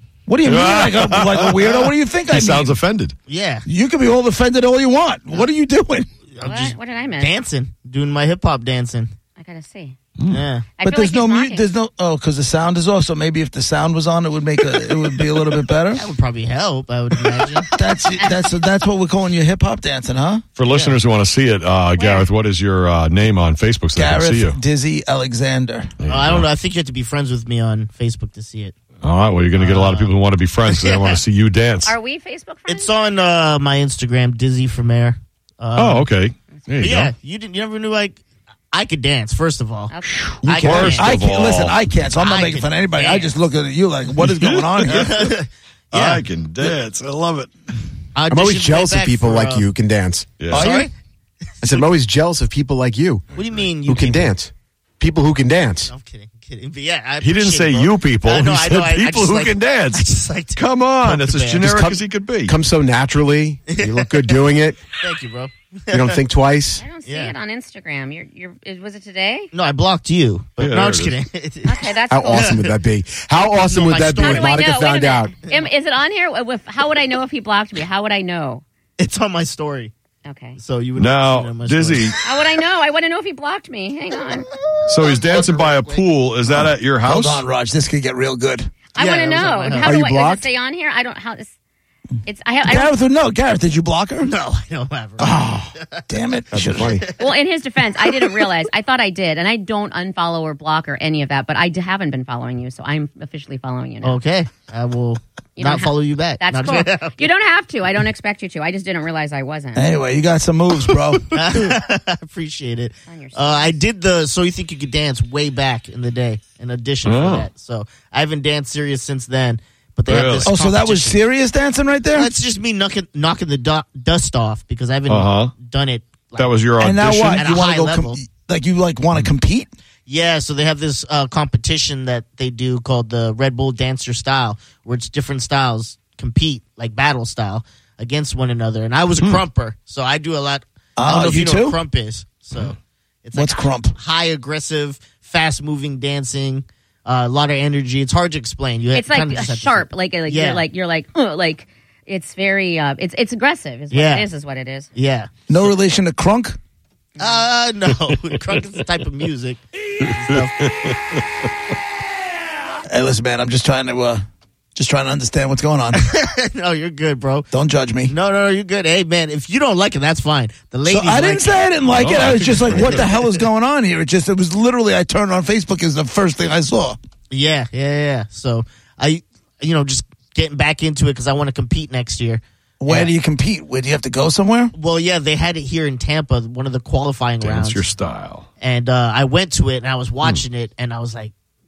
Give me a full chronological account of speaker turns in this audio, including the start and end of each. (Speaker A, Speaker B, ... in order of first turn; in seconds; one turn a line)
Speaker A: 0.3-2.8
Speaker B: 0.5-3.2
Speaker C: 3.3-3.7
Speaker A: 3.7-6.1
Speaker C: 6.4-9.1
Speaker D: 6.4-7.3
Speaker D: 9.4-10.0
Speaker B: 10.2-10.4
Speaker C: 10.3-10.7
Speaker D: 10.8-11.7
Speaker A: 10.8-16.1
Speaker C: 15.9-17.7
Speaker A: 17.7-20.4
Speaker B: 20.6-24.6
Speaker C: 20.7-21.0
Speaker D: 22.0-22.3
Speaker A: 23.9-25.9
Speaker B: 26.0-26.5
Speaker C: 26.1-28.8
Speaker B: 29.0-32.0
Speaker C: 29.6-30.1
Speaker C: 30.7-31.2
Speaker D: 31.9-32.9
Speaker C: 32.7-36.1
Speaker B: 35.8-37.1
Speaker C: 36.8-38.2
Speaker C: 38.7-41.2
Speaker D: 39.9-40.3
Speaker B: 40.3-41.8
Speaker A: 40.6-45.3
Speaker C: 42.2-43.3
Speaker B: 44.2-45.3
Speaker C: 44.9-46.2
Speaker B: 45.9-47.5
Speaker C: 48.1-49.7
Speaker E: 48.3-50.4
Speaker B: 50.4-50.7
Speaker A: 50.5-50.9
Speaker C: 50.5-50.9
Speaker E: 51.6-53.2
Speaker C: 53.4-54.4
Speaker B: 53.4-53.7
Speaker E: 53.9-55.9
Speaker C: 55.9-61.9
Speaker B: 57.2-62.6
Speaker E: 62.5-64.8
Speaker C: 63.7-66.2
Speaker E: 65.9-66.8
Speaker D: 66.8-69.5
Speaker C: 67.0-67.3
Speaker C: 69.5-72.7
Speaker B: 70.6-71.2
Speaker D: 71.7-72.6
Speaker E: 72.1-75.3
Speaker C: 73.3-74.6
Speaker D: 74.2-78.6
Speaker C: 79.0-79.9
Speaker D: 80.2-80.6
Speaker C: 80.6-82.2
Speaker B: 81.0-82.2
Speaker D: 82.2-84.5
Speaker C: 84.8-86.0
Speaker B: 84.9-87.5
Speaker A: 86.5-88.7
Speaker D: 88.9-91.5
Speaker C: 89.0-90.0
Speaker E: 89.8-90.5
Speaker D: 92.2-92.9
Speaker A: 92.7-94.3
Speaker C: 94.2-96.0
Speaker A: 95.2-97.0
Speaker E: 96.5-97.0
Speaker C: 96.8-97.2
Speaker D: 97.2-104.2
Speaker C: 98.0-98.4
Speaker C: 104.0-107.3
Speaker D: 105.6-109.9
Speaker A: 109.8-111.8
Speaker C: 111.3-121.2
Speaker D: 113.1-113.8
Speaker B: 117.0-117.5
Speaker B: 120.1-120.5
Speaker A: 120.5-122.3
Speaker C: 122.1-126.5
Speaker B: 125.1-125.5
Speaker B: 126.4-127.5
Speaker A: 126.8-129.7
Speaker C: 127.3-128.2
Speaker C: 130.1-150.7
Speaker A: 141.0-141.8
Speaker A: 143.3-144.0
Speaker D: 148.9-154.9
Speaker C: 153.9-154.3
Speaker C: 154.9-155.3
Speaker A: 155.5-156.6
Speaker D: 157.2-157.4
Speaker C: 157.2-160.7
Speaker B: 160.0-161.0
Speaker A: 162.8-166.1
Speaker C: 165.9-167.5
Speaker A: 167.5-168.1
Speaker C: 168.1-173.4
Speaker A: 170.9-177.0
Speaker B: 171.9-173.1
Speaker C: 177.3-183.1
Speaker A: 182.8-184.7
Speaker C: 184.8-187.8
Speaker B: 187.4-188.5
Speaker C: 188.6-191.3